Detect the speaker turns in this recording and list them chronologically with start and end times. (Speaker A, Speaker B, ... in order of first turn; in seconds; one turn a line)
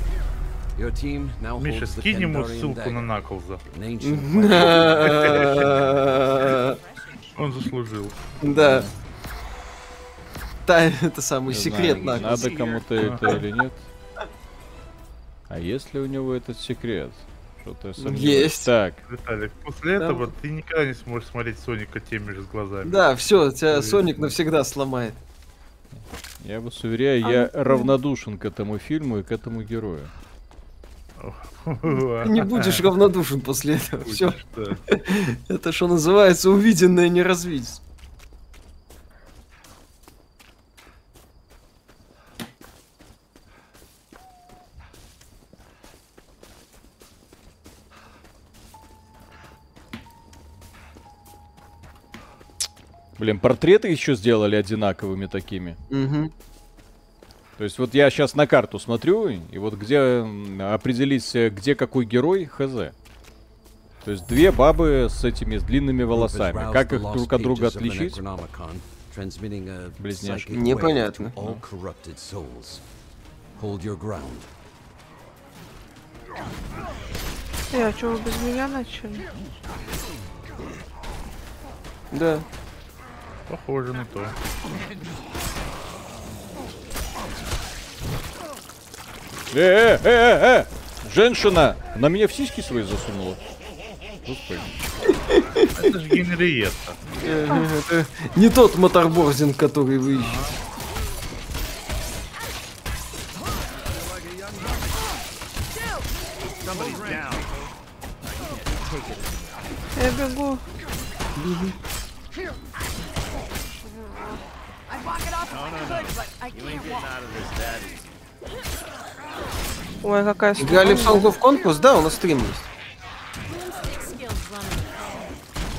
Speaker A: 0.8-6.1
Speaker B: 1.6-3.6
Speaker C: 4.0-6.8
Speaker B: 4.8-5.7
Speaker B: 7.3-8.2
Speaker C: 8.4-8.9
Speaker D: 8.5-8.9
Speaker C: 10.7-13.4
Speaker D: 11.5-13.8
Speaker E: 11.9-12.8
Speaker B: 13.0-13.4
Speaker D: 15.5-19.0
Speaker C: 18.0-18.7
Speaker B: 19.1-23.1
Speaker C: 20.0-20.3
Speaker C: 22.8-25.2
Speaker B: 23.7-24.3
Speaker D: 26.4-30.1
Speaker F: 27.2-27.9
Speaker B: 31.2-32.9
Speaker C: 32.2-34.4
Speaker B: 34.0-34.8
Speaker C: 34.9-37.8
Speaker D: 53.2-55.8
Speaker C: 55.9-56.3
Speaker D: 57.6-62.9
Speaker D: 64.0-68.2
Speaker A: 66.1-72.8
Speaker D: 70.0-70.9
Speaker C: 70.5-71.3
Speaker A: 73.6-74.5
Speaker F: 77.7-79.2
Speaker C: 82.1-82.5
Speaker B: 83.5-84.3
Speaker D: 89.5-93.4
Speaker D: 94.2-94.8
Speaker C: 95.3-95.7
Speaker B: 95.7-97.0
Speaker C: 97.2-100.4
Speaker B: 100.1-100.5
Speaker G: 103.8-105.0
Speaker G: 106.6-107.7
Speaker E: 106.6-107.4
Speaker G: 108.2-109.7
Speaker F: 109.9-110.6
Speaker C: 111.4-111.8
Speaker E: 114.9-117.1
Speaker G: 115.5-118.1
Speaker F: 120.0-121.3
Speaker C: 120.6-122.7
Speaker E: 123.4-125.4